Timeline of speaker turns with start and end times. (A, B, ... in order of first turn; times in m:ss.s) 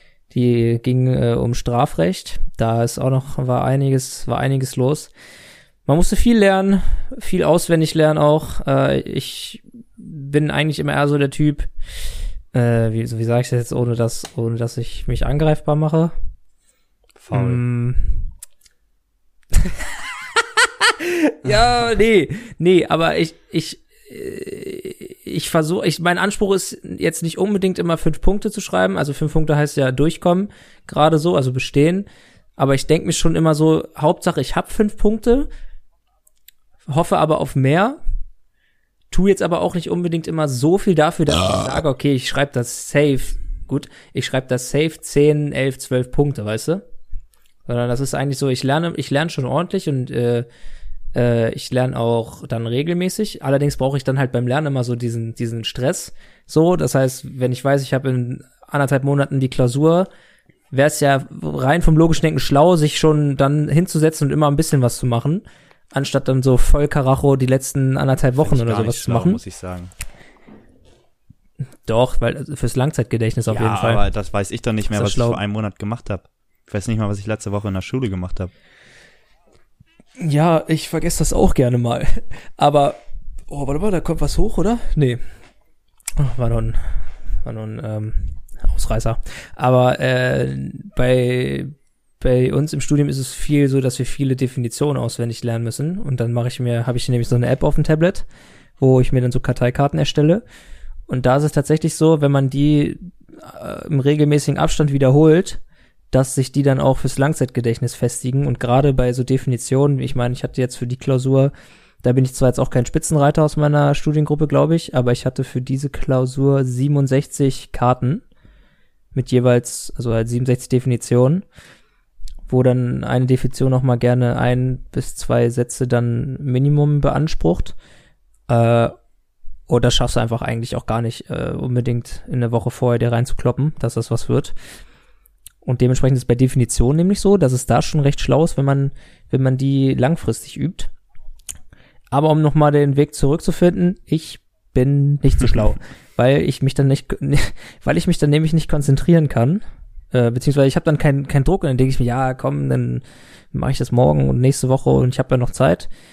0:00.3-0:05.1 A
0:05.9-0:11.7 A
0:12.5-0:16.1 A
0:17.2-0:17.6 B
0:17.3-0:18.3 A
0:19.5-0:35.5 A
0:36.9-0:38.0 A
0:39.1-0:46.8 A
0:47.7-0:50.5 A
0:51.1-1:00.1 A
1:00.7-1:09.4 A
1:08.4-1:09.9 B
1:11.9-1:14.1 A
1:13.5-1:18.5 B
1:14.9-1:15.4 A
1:20.2-1:25.2 A
1:26.2-1:38.3 A
1:38.8-1:40.4 A
1:41.1-1:45.6 A
1:46.1-1:51.5 A
1:52.0-1:58.2 A
1:59.1-2:01.4 A
2:02.5-2:07.8 A
2:08.5-2:09.0 A
2:09.7-2:14.6 A
2:15.6-2:20.9 A
2:22.1-2:35.9 A